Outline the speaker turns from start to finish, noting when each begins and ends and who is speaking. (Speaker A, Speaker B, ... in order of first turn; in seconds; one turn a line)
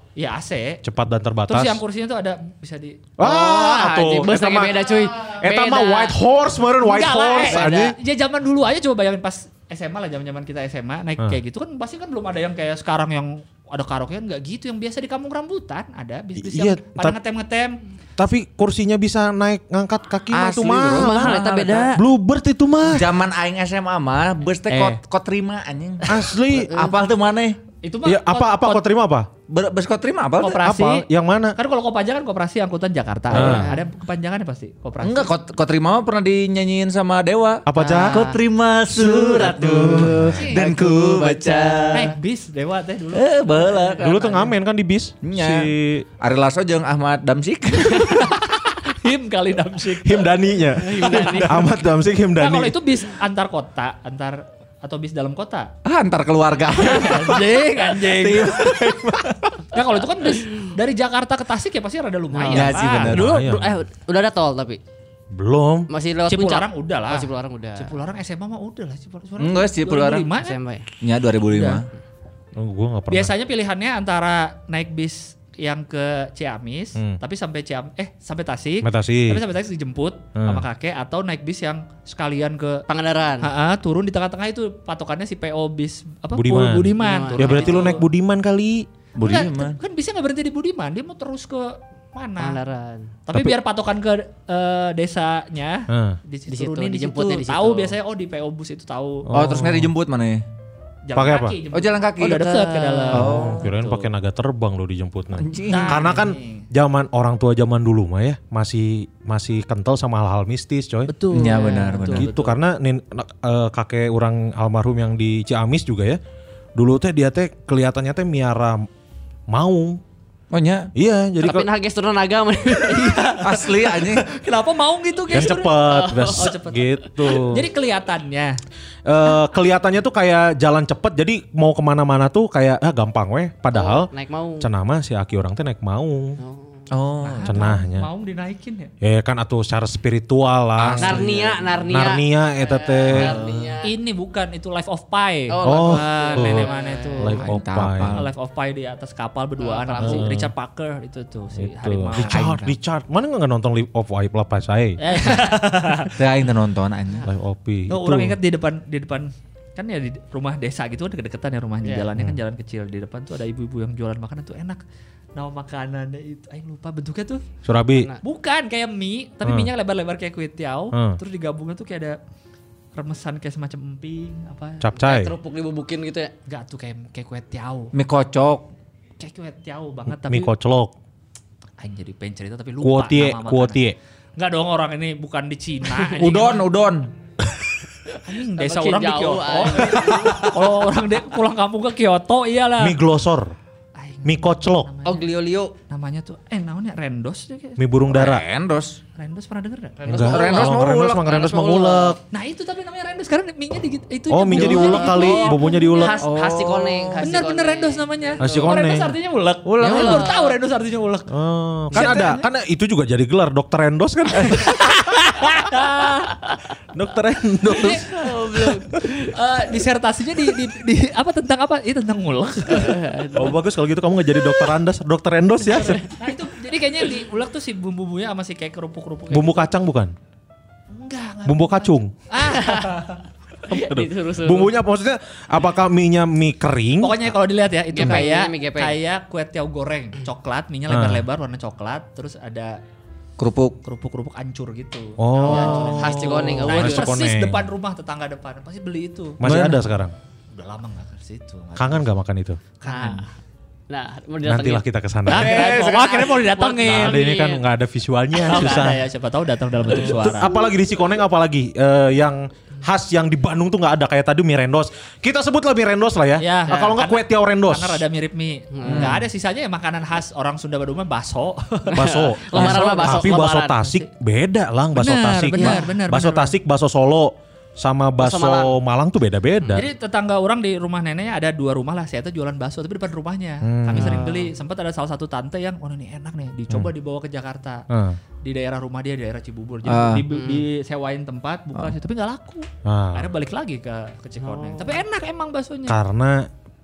Speaker A: 0.2-0.8
Speaker B: 0.8-1.8
Speaker A: 1.5-3.0
Speaker B: 3.2-8.0
Speaker C: 3.2-6.1
Speaker A: 6.8-17.8
Speaker C: 7.5-7.8
Speaker B: 16.4-17.2
Speaker B: 18.2-23.1
Speaker D: 20.3-21.7
Speaker C: 20.9-22.0
Speaker D: 22.9-27.6
Speaker A: 24.7-25.0
Speaker B: 26.1-26.7
Speaker A: 27.8-28.8
Speaker B: 28.0-29.3
Speaker D: 29.5-30.6
Speaker A: 30.4-35.3
Speaker B: 30.6-31.6
Speaker B: 33.3-33.7
Speaker C: 33.3-33.9
Speaker D: 35.0-42.1
Speaker B: 37.6-38.3
Speaker C: 37.8-38.3
Speaker C: 38.9-42.1
Speaker B: 39.8-40.4
Speaker A: 40.2-40.6
Speaker A: 41.9-44.2
Speaker D: 43.1-44.4
Speaker B: 44.0-46.0
Speaker D: 45.2-45.7
Speaker D: 46.2-48.3
Speaker A: 48.1-51.7
Speaker B: 50.0-52.8
Speaker C: 50.8-51.7
Speaker A: 52.4-55.7
Speaker D: 55.8-59.5
Speaker A: 56.8-58.8
Speaker A: 59.7-63.1
Speaker C: 62.3-64.8
Speaker D: 62.5-63.4
Speaker B: 63.1-63.7
Speaker B: 65.3-65.9
Speaker C: 65.9-67.9
Speaker A: 66.3-70.6
Speaker D: 69.4-70.3
Speaker C: 70.4-70.8
Speaker D: 71.0-71.8
Speaker A: 71.5-71.8
Speaker B: 72.6-73.3
Speaker A: 73.1-82.8
Speaker B: 78.8-79.4
Speaker B: 80.3-80.6
Speaker C: 82.9-83.5
Speaker A: 83.4-88.0
Speaker B: 86.3-88.9
Speaker C: 87.0-88.0
Speaker D: 89.2-89.8
Speaker A: 89.2-92.6
Speaker C: 92.4-93.1
Speaker A: 93.2-99.3
Speaker B: 95.9-96.2
Speaker C: 96.5-98.0
Speaker B: 99.2-99.9
Speaker D: 99.3-100.4
Speaker A: 101.0-104.0
Speaker B: 101.1-101.6
Speaker D: 101.7-103.7
Speaker C: 102.7-103.2
Speaker B: 103.1-111.2
Speaker D: 105.4-106.1
Speaker A: 105.7-106.6
Speaker A: 111.1-112.5
Speaker D: 111.3-112.3
Speaker C: 111.5-111.8
Speaker B: 112.1-116.2
Speaker B: 116.8-118.8
Speaker B: 119.5-120.0
Speaker D: 120.5-120.9
Speaker B: 120.9-121.7
Speaker C: 121.4-123.3
Speaker A: 122.7-128.6
Speaker D: 123.4-124.2
Speaker B: 125.3-127.7
Speaker C: 125.9-126.5
Speaker B: 129.1-136.4
Speaker C: 133.7-134.7
Speaker C: 136.4-136.8
Speaker D: 136.9-137.7
Speaker A: 137.2-138.9
Speaker B: 137.4-138.1
Speaker B: 139.0-141.3
Speaker D: 140.8-141.9
Speaker C: 140.9-143.9
Speaker B: 141.9-143.4
Speaker D: 143.1-143.8
Speaker A: 143.8-147.5
Speaker C: 145.5-147.4
Speaker B: 145.6-148.2
Speaker D: 147.4-148.3
Speaker A: 148.1-152.5
Speaker C: 149.6-150.3
Speaker B: 150.0-150.5
Speaker B: 151.6-155.4
Speaker D: 152.2-152.7
Speaker A: 155.0-156.2
Speaker D: 156.2-157.3
Speaker B: 157.2-158.4
Speaker A: 157.9-164.8
Speaker A: 165.3-167.4
Speaker B: 167.6-168.1
Speaker C: 167.9-168.2
Speaker A: 168.2-172.2
Speaker B: 169.4-169.7
Speaker B: 170.9-171.2
Speaker A: 172.9-174.8
Speaker B: 174.8-175.3
Speaker C: 175.0-176.3
Speaker A: 176.5-177.9
Speaker D: 177.9-178.7
Speaker A: 179.2-180.5
Speaker B: 180.1-180.9
Speaker A: 181.8-183.8
Speaker B: 182.8-184.0
Speaker A: 184.4-186.7
Speaker D: 186.0-187.1
Speaker A: 188.2-193.0
Speaker C: 188.6-190.5
Speaker B: 192.8-193.5
Speaker A: 193.9-195.3
Speaker B: 194.2-194.9
Speaker C: 195.0-195.7
Speaker A: 195.9-197.8
Speaker B: 197.8-198.4
Speaker D: 198.1-199.0
Speaker A: 199.2-200.3
Speaker C: 200.0-202.2
Speaker B: 200.1-202.2
Speaker D: 200.1-201.3
Speaker A: 202.3-206.2
Speaker B: 204.3-206.2
Speaker C: 204.5-208.7
Speaker D: 206.2-207.3
Speaker A: 207.2-211.3
Speaker B: 208.4-209.1
Speaker D: 209.6-210.3
Speaker C: 209.8-210.5
Speaker B: 211.3-215.6
Speaker D: 211.9-212.3
Speaker A: 211.9-212.4
Speaker D: 214.3-214.7
Speaker A: 215.3-216.5
Speaker B: 216.9-218.1
Speaker A: 217.7-223.0
Speaker C: 218.0-218.9
Speaker C: 222.7-223.6
Speaker B: 223.3-226.0
Speaker A: 225.9-229.7
Speaker B: 229.3-230.1
Speaker A: 230.9-233.2
Speaker B: 231.4-232.1
Speaker C: 232.5-233.0
Speaker C: 233.7-234.7
Speaker B: 233.7-237.3
Speaker A: 237.0-242.8
Speaker C: 237.9-238.9
Speaker B: 240.9-241.2
Speaker D: 243.4-243.8
Speaker A: 243.8-249.4
Speaker B: 245.2-247.6
Speaker C: 245.5-247.2
Speaker B: 249.4-250.1
Speaker D: 249.4-249.8
Speaker A: 250.5-252.1
Speaker B: 251.8-252.6
Speaker A: 252.8-253.3
Speaker C: 252.8-253.2
Speaker C: 253.9-254.8
Speaker B: 254.4-255.7
Speaker A: 255.2-257.3
Speaker D: 255.3-256.4
Speaker C: 255.5-257.6
Speaker B: 256.8-259.0
Speaker A: 258.4-260.5
Speaker C: 258.5-258.9
Speaker B: 259.9-268.0
Speaker A: 266.4-274.1
Speaker C: 268.7-269.1
Speaker D: 268.8-269.2
Speaker B: 271.9-279.9
Speaker C: 271.9-273.8
Speaker A: 274.9-276.5
Speaker C: 278.2-278.7
Speaker A: 279.7-287.8
Speaker B: 283.6-284.2
Speaker C: 284.0-284.3
Speaker B: 287.9-288.2
Speaker A: 288.4-296.0
Speaker D: 289.8-290.2
Speaker C: 290.3-290.6
Speaker B: 292.8-293.3
Speaker C: 294.4-295.0
Speaker B: 295.9-296.4